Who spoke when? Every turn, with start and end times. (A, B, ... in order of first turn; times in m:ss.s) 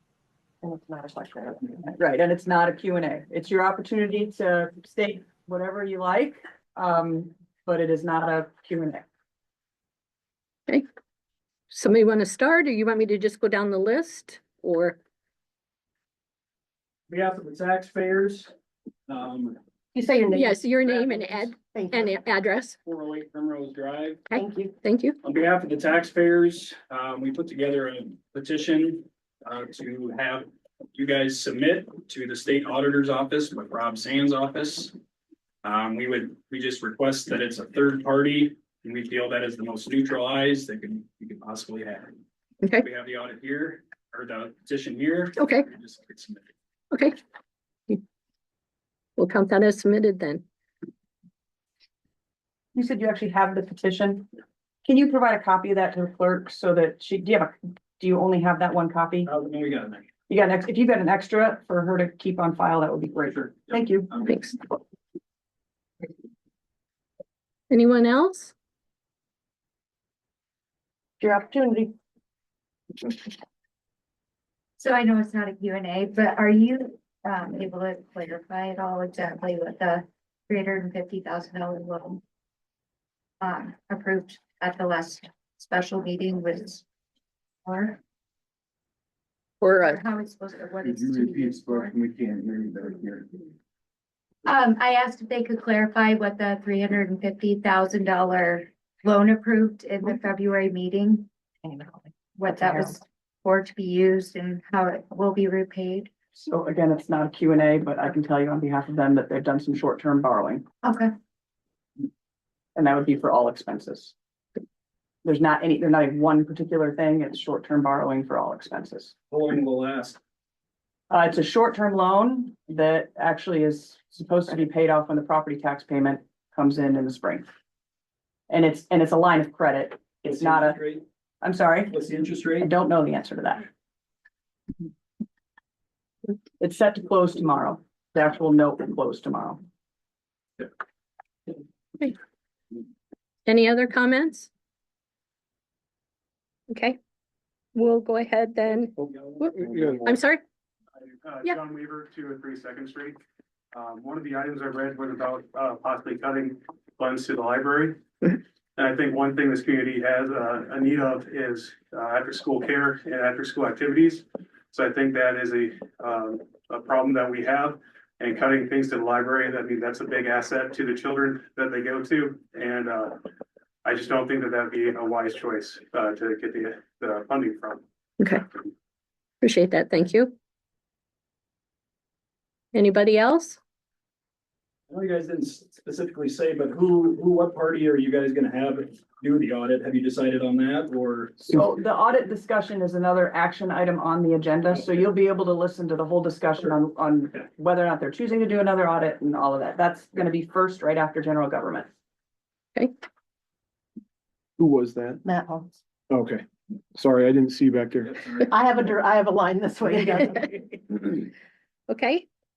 0:00.6-0:09.1 A
0:11.7-0:15.0 B
0:17.1-0:18.5 C
0:19.1-0:19.6 C
0:19.9-0:20.7 D
0:20.3-0:22.8 B
0:20.9-0:21.5 C
0:21.7-0:22.2 D
0:22.8-0:24.3 C
0:24.3-0:25.2 B
0:24.4-0:24.8 D
0:25.2-0:34.9 C
0:35.6-0:42.2 C
0:42.8-0:46.5 C
0:45.4-0:45.7 B
0:49.2-0:50.4 B
0:52.8-0:54.3 A
0:54.8-0:59.3 A
0:59.2-1:00.1 C
1:00.3-1:04.1 A
1:03.5-1:04.4 C
1:04.2-1:04.6 B
1:07.7-1:08.5 B
1:14.8-1:22.2 E
1:23.4-1:26.8 E
1:27.6-1:28.0 E
1:29.6-1:30.0 B
1:29.8-1:32.0 E
1:30.8-1:33.5 F
1:34.4-1:46.1 E
1:42.5-1:42.9 A
1:46.3-1:50.6 A
1:50.8-1:51.1 E
1:52.8-1:54.1 A
1:55.2-1:59.1 A
1:59.3-2:00.2 C
2:01.1-2:07.5 A
2:08.5-2:10.8 A
2:10.2-2:11.0 C
2:11.4-2:12.0 A
2:11.9-2:12.7 C
2:12.6-2:13.7 A
2:16.6-2:19.6 A
2:23.5-2:24.5 B
2:26.7-2:27.0 B
2:27.8-2:30.4 B
2:29.4-2:30.0 C
2:29.5-2:30.2 G
2:31.0-2:33.2 H
2:33.7-2:38.0 H
2:38.8-2:53.2 H
2:53.8-2:57.8 H
2:58.2-2:58.4 B
2:59.4-3:00.3 B
3:02.7-3:03.6 B
3:04.9-3:11.6 C
3:11.5-3:21.9 A
3:24.6-3:25.2 G
3:25.2-3:25.8 D
3:26.1-3:28.5 G
3:28.5-3:30.8 D
3:31.9-3:32.3 B